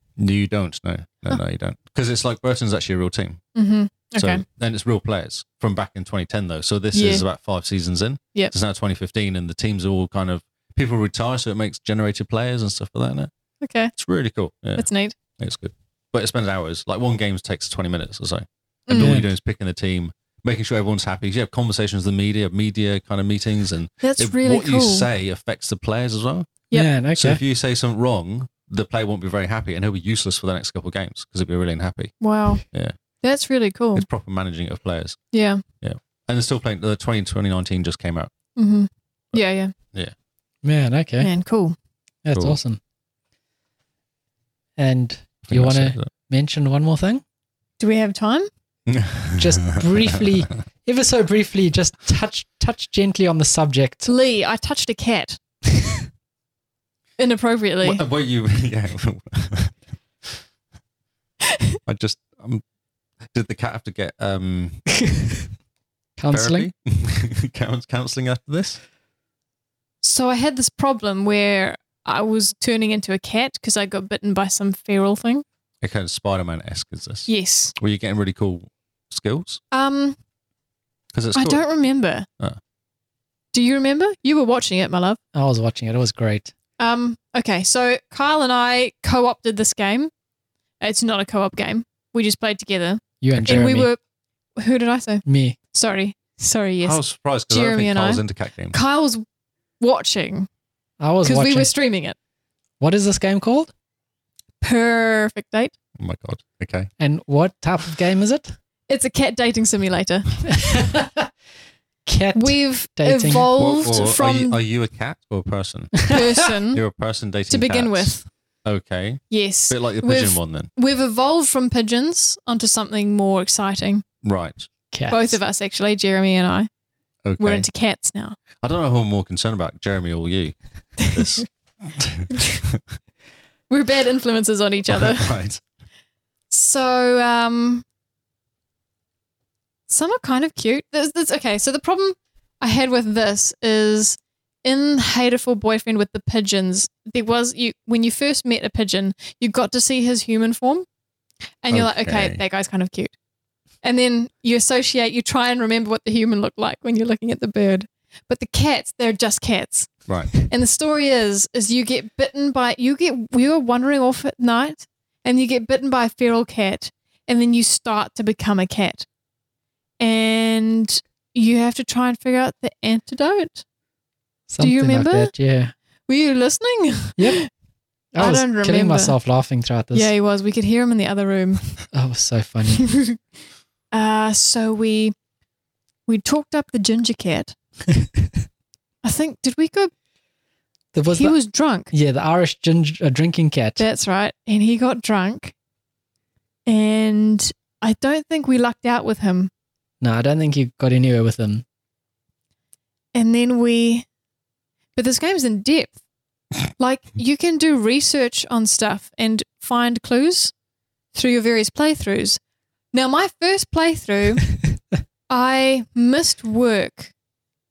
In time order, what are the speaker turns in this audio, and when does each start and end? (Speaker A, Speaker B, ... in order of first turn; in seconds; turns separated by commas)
Speaker A: 0.2-3.4, Speaker B: 3.5-4.4, Speaker A: 4.2-13.3, Speaker B: 6.9-7.2, Speaker B: 13.6-13.9, Speaker A: 13.9-26.5, Speaker B: 14.8-15.1, Speaker B: 18.9-19.1, Speaker C: 18.9-19.3, Speaker B: 24.0-25.1, Speaker C: 26.7-27.4, Speaker A: 27.1-32.9, Speaker B: 32.2-32.6, Speaker B: 33.2-34.0, Speaker A: 33.9-35.2, Speaker B: 35.3-35.6, Speaker A: 35.8-38.3, Speaker B: 38.5-39.7, Speaker C: 40.6-41.3, Speaker B: 41.2-41.8, Speaker C: 42.2-42.8, Speaker C: 44.8-47.2, Speaker A: 45.4-46.1, Speaker B: 47.8-48.5, Speaker A: 48.9-50.3, Speaker C: 49.4-54.1, Speaker B: 54.0-55.4, Speaker B: 57.2-58.0, Speaker A: 57.8-60.4, Speaker A: 61.9-62.6, Speaker A: 63.2-64.8, Speaker C: 66.2-66.7, Speaker A: 66.3-68.8, Speaker B: 70.0-75.4, Speaker A: 75.8-79.6, Speaker B: 77.3-77.7, Speaker B: 79.7-80.2, Speaker A: 81.1-81.6, Speaker B: 81.3-82.3, Speaker B: 83.5-85.2, Speaker C: 85.3-86.5, Speaker B: 86.8-90.1, Speaker B: 90.8-94.0, Speaker C: 93.2-93.9, Speaker A: 93.3-93.7, Speaker B: 94.6-99.2, Speaker C: 95.2-95.6, Speaker A: 96.8-98.8, Speaker B: 99.8-100.5, Speaker C: 101.0-101.7, Speaker B: 101.2-102.2, Speaker C: 102.8-103.7, Speaker B: 104.6-105.7, Speaker A: 106.0-106.9, Speaker C: 107.0-108.5, Speaker B: 108.9-110.8, Speaker C: 110.5-111.3, Speaker C: 112.0-113.5, Speaker B: 112.3-114.6, Speaker A: 113.5-120.7, Speaker B: 116.1-116.8, Speaker B: 117.5-118.3, Speaker B: 119.3-124.0, Speaker A: 124.2-124.7, Speaker C: 124.9-125.4, Speaker B: 125.1-126.7, Speaker A: 127.2-127.7, Speaker B: 127.4-128.4, Speaker A: 128.6-132.8, Speaker B: 131.0-131.4, Speaker B: 132.3-132.6, Speaker B: 133.7-135.3, Speaker A: 134.8-135.6, Speaker B: 136.5-137.8, Speaker B: 139.9-150.8, Speaker B: 151.6-153.1, Speaker A: 151.7-152.4, Speaker B: 153.8-169.1, Speaker A: 160.1-160.3, Speaker B: 170.0-173.6, Speaker C: 174.5-175.7, Speaker B: 174.6-175.3, Speaker B: 176.1-177.5, Speaker C: 177.2-177.4, Speaker C: 178.1-180.1, Speaker B: 178.2-179.2, Speaker B: 179.9-181.8, Speaker C: 181.9-183.0, Speaker B: 182.8-183.2, Speaker B: 183.9-185.1, Speaker B: 186.1-187.5, Speaker B: 189.0-189.9, Speaker C: 190.9-191.4, Speaker B: 191.1-191.9, Speaker C: 191.9-193.8, Speaker B: 193.8-195.5, Speaker B: 196.7-199.5, Speaker C: 200.0-201.6, Speaker B: 203.1-204.1, Speaker B: 204.9-205.9, Speaker B: 206.8-210.5, Speaker B: 211.1-212.4, Speaker B: 212.9-214.6, Speaker B: 215.3-217.1